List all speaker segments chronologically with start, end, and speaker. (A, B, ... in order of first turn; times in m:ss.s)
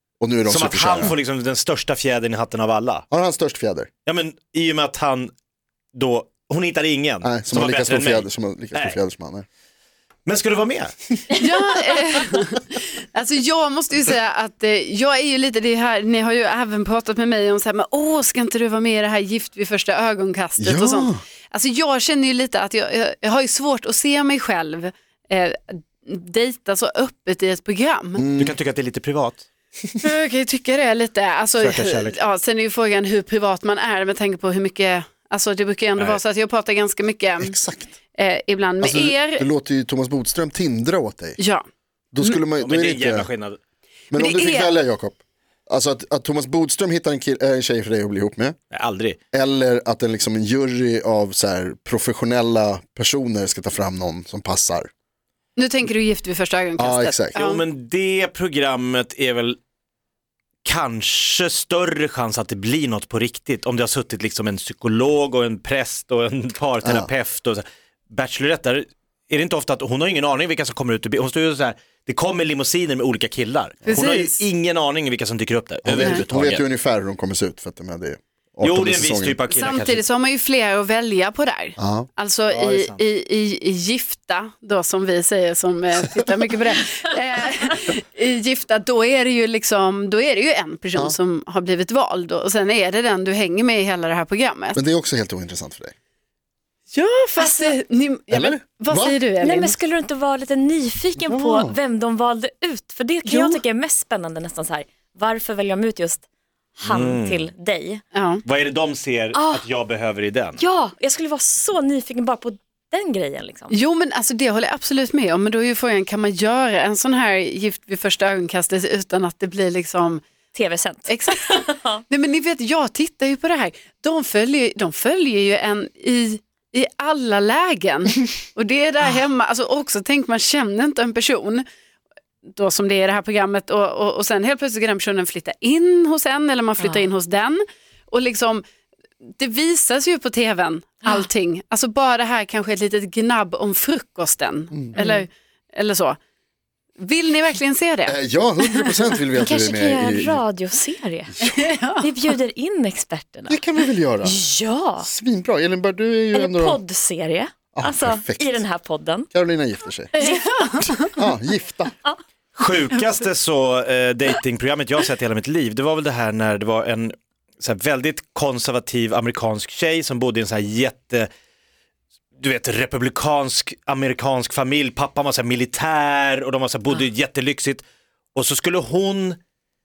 0:00.2-0:01.2 A
0:00.5-0:03.1 B
0:03.1-0:03.9 A
0:04.1-0:05.3 B
0:05.9-0:09.0 B
0:07.2-0:09.5 A
0:10.2-0:11.4 B
0:11.3-0:28.2 C
0:20.6-0:21.2 A
0:28.2-0:28.6 A
0:28.4-0:29.5 B
0:30.0-0:37.6 C
0:31.6-0:32.2 B
0:37.4-0:37.9 A
0:38.2-0:39.4 C
0:38.8-0:41.4 A
0:41.4-0:41.6 C
0:42.1-0:43.3 A
0:42.6-0:43.6 B
0:44.1-0:48.6 A
0:44.1-0:44.7 C
0:48.7-0:49.2 B
0:49.3-0:54.9 A
0:55.6-0:57.6 C
0:56.8-0:57.4 A
0:57.3-0:59.6 B
1:00.6-1:16.6 B
1:06.8-1:07.1 A
1:13.9-1:14.4 C
1:15.8-1:19.4 A
1:18.6-1:20.0 B
1:19.5-1:34.8 C
1:21.8-1:22.1 A
1:22.5-1:23.0 B
1:34.7-1:35.9 A
1:36.9-1:39.8 C
1:37.4-1:37.8 D
1:38.3-1:39.2 A
1:39.4-1:46.2 D
1:41.2-1:41.8 A
1:43.2-1:43.6 C
1:46.8-1:48.0 D
1:46.8-1:47.4 B
1:48.1-1:48.4 C
1:48.4-1:50.6 B
1:49.3-1:49.6 D
1:50.6-1:53.8 D
1:53.7-2:00.2 C
2:00.5-2:02.0 D
2:01.1-2:11.6 C
2:12.5-2:18.6 C
2:19.4-2:26.2 C
2:24.7-2:25.0 A
2:25.0-2:25.2 D
2:27.0-2:29.0 C
2:28.0-2:30.4 A
2:29.4-2:31.3 D
2:31.4-2:31.7 A
2:31.4-2:32.1 C
2:32.0-2:33.6 D
2:33.5-2:34.4 A
2:34.2-2:35.1 D
2:35.0-2:36.8 A
2:36.3-2:39.3 D
2:37.7-2:38.7 A
2:39.3-2:40.2 A
2:40.2-2:40.8 D
2:40.2-2:41.2 C
2:41.1-2:41.9 A
2:42.5-2:51.3 B
2:52.4-2:57.8 B
2:58.3-2:59.4 B